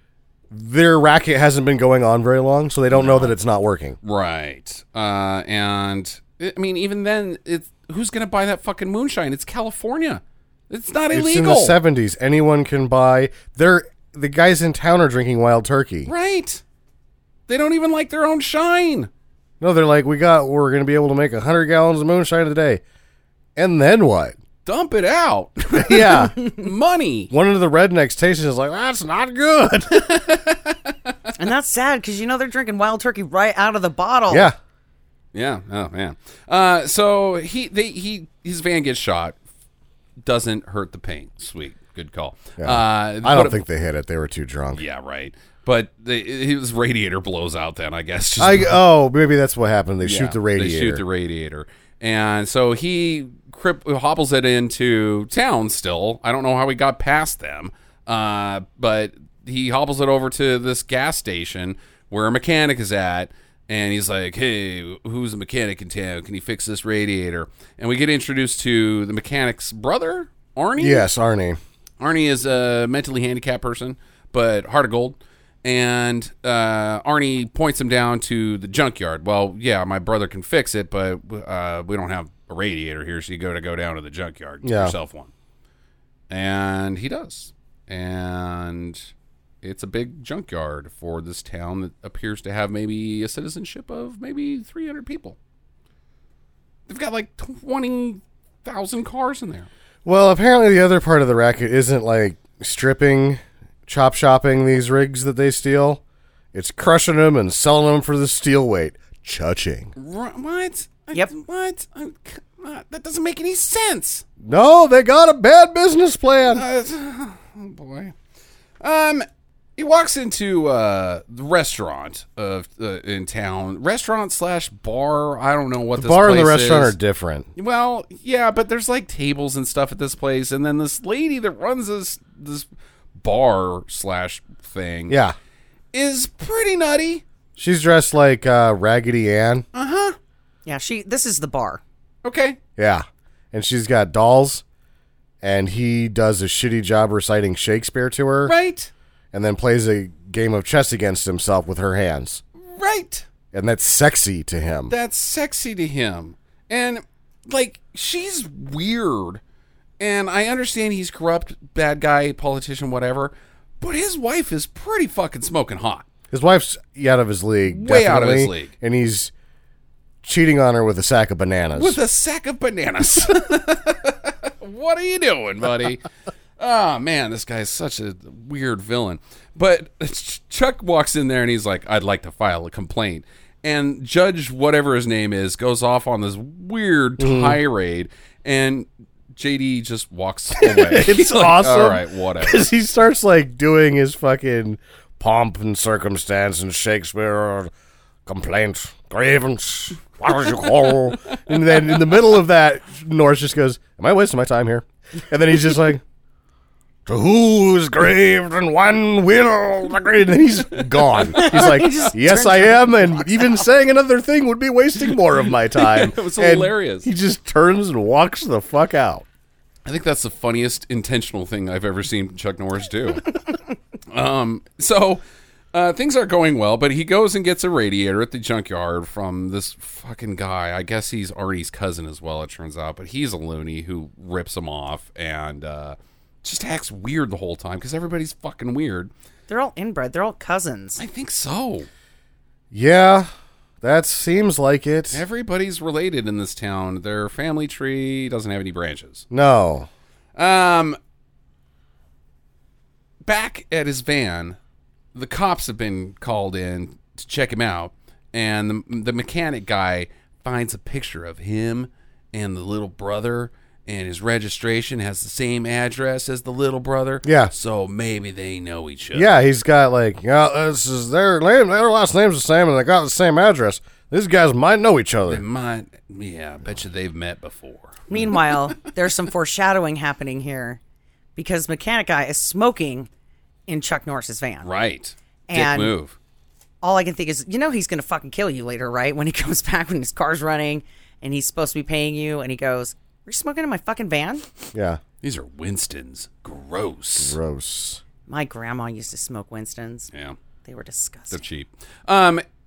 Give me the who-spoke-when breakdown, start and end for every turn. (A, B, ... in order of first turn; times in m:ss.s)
0:00.5-0:04.0 A
0:02.9-0:03.3 B
0:04.0-0:11.8 B
0:11.1-0:16.1 A
0:16.0-0:16.6 B
0:17.5-0:19.1 B
0:19.6-0:22.8 A
0:23.6-0:24.4 A
0:24.6-0:27.3 B
0:25.7-0:26.4 A
0:27.3-0:30.0 A
0:29.9-0:31.1 B
0:31.4-0:34.5 C
0:34.3-0:34.6 A
0:35.3-0:39.4 B
0:40.2-0:43.6 B
0:42.6-0:44.8 A
0:44.7-0:48.8 B
0:48.4-0:51.0 A
0:50.0-1:11.1 B
1:10.8-1:11.6 A
1:12.0-1:25.3 B
1:24.6-1:24.9 A
1:26.3-1:29.1 B
1:29.6-1:35.4 B
1:36.9-1:39.7 B
1:40.0-1:46.0 A
1:46.5-1:49.9 A
1:50.0-1:54.2 B
1:54.4-1:56.6 A
1:56.4-1:58.1 B
1:58.8-1:59.2 B
1:59.8-2:07.0 B
2:06.0-2:07.5 A
2:07.6-2:12.7 B
2:13.2-2:15.2 B
2:15.1-2:15.4 A
2:15.9-2:17.2 B
2:17.6-2:19.6 A
2:19.7-2:20.2 B
2:20.6-2:21.8 C
2:22.2-2:22.6 B
2:22.8-2:24.6 A
2:25.4-2:28.5 A
2:28.4-2:28.9 B
2:29.3-2:32.4 A
2:32.6-2:33.2 B
2:33.5-2:34.9 A
2:34.9-2:39.4 B
2:40.0-2:46.0 B
2:46.3-2:49.3 A
2:47.7-2:48.7 B
2:50.2-2:52.0 A
2:51.7-2:56.0 B
2:56.6-3:12.7 B
3:07.2-3:07.6 A
3:10.6-3:17.7 A
3:18.2-3:26.0 A
3:27.0-3:39.2 A
3:31.0-3:31.9 B
3:31.3-3:33.3 C
3:35.7-3:37.1 B
3:39.8-3:43.4 B
3:44.1-3:45.2 B
3:45.7-3:59.1 B
3:59.5-4:01.0 C
4:01.0-4:01.9 B
4:02.7-4:03.3 A
4:03.8-4:05.2 A
4:05.1-4:09.2 B
4:09.3-4:09.9 A
4:10.4-4:11.0 B
4:13.2-4:14.6 B
4:15.1-4:29.3 B
4:27.2-4:27.5 A
4:29.1-4:35.4 A
4:35.2-4:38.6 B
4:38.1-4:40.8 C
4:41.4-4:43.1 C
4:43.7-4:44.7 C
4:44.6-4:46.2 B
4:45.5-4:45.9 C
4:46.8-4:54.4 C
4:54.7-4:55.0 A
4:55.2-4:57.4 B
4:57.2-4:58.0 A
4:58.3-5:00.1 C
5:00.6-5:01.4 C
5:01.3-5:02.4 B